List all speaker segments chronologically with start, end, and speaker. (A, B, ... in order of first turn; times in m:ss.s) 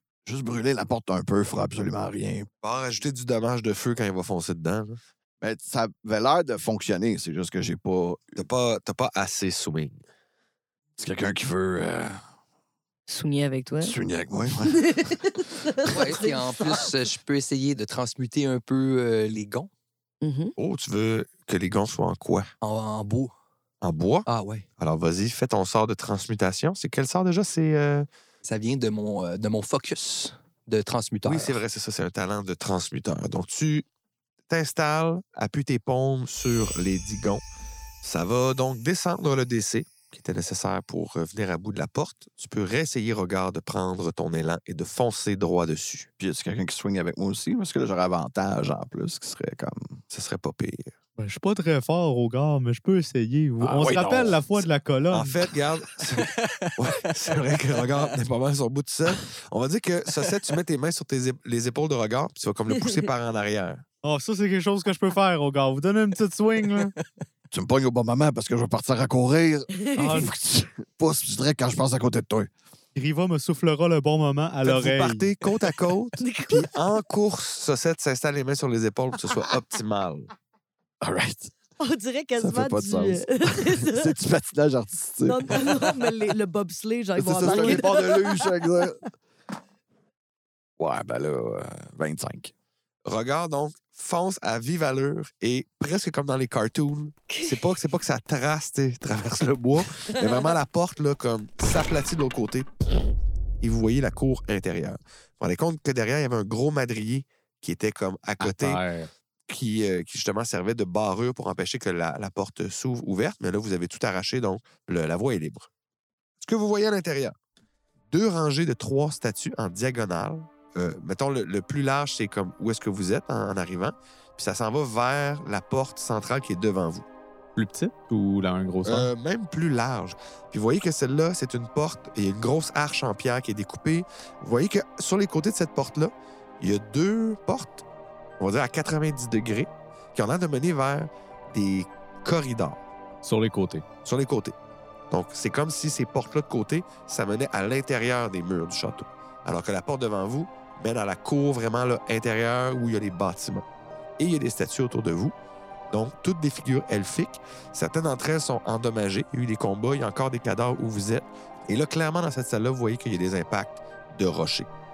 0:00.2-0:02.5 A
0:02.6-0:05.0 B
0:05.4-0:08.5 A
0:08.4-0:10.0 B
0:11.0-0:12.2 A
0:13.1-0:14.0 C
0:13.8-0:15.2 A
0:14.6-0:16.8 C
0:15.8-0:19.7 D
0:20.2-0:20.6 C
0:20.6-0:22.5 B
0:22.6-0:23.3 D
0:23.8-0:24.3 B
0:24.3-0:24.6 D
0:24.8-0:28.1 B
0:28.4-0:31.6 D
0:31.2-0:33.9 B
0:34.5-0:37.4 B
0:38.0-0:46.1 B
0:46.2-0:50.0 A
0:50.1-0:50.9 B
0:51.2-0:55.4 E
0:53.6-0:54.6 A
0:55.1-1:03.8 B
1:04.0-1:06.9 E
1:07.5-1:12.5 A
1:09.9-1:10.2 C
1:10.0-1:10.3 E
1:12.9-1:15.3 E
1:14.6-1:20.3 B
1:16.2-1:16.8 C
1:21.0-1:21.5 A
1:21.8-1:24.2 C
1:22.4-1:26.1 A
1:25.2-1:28.9 C
1:27.2-1:29.0 A
1:27.4-1:27.8 B
1:30.8-1:32.5 A
1:33.0-1:42.7 B
1:43.6-1:48.8 B
1:48.4-1:49.1 E
1:49.5-1:55.7 B
1:56.4-1:57.3 B
1:58.1-2:07.0 B
2:07.6-2:09.1 E
2:08.9-2:17.8 B
2:18.4-2:22.8 B
2:23.2-2:23.9 E
2:24.0-2:24.6 B
2:25.1-2:33.6 B
2:34.2-2:35.3 B
2:35.9-2:44.7 B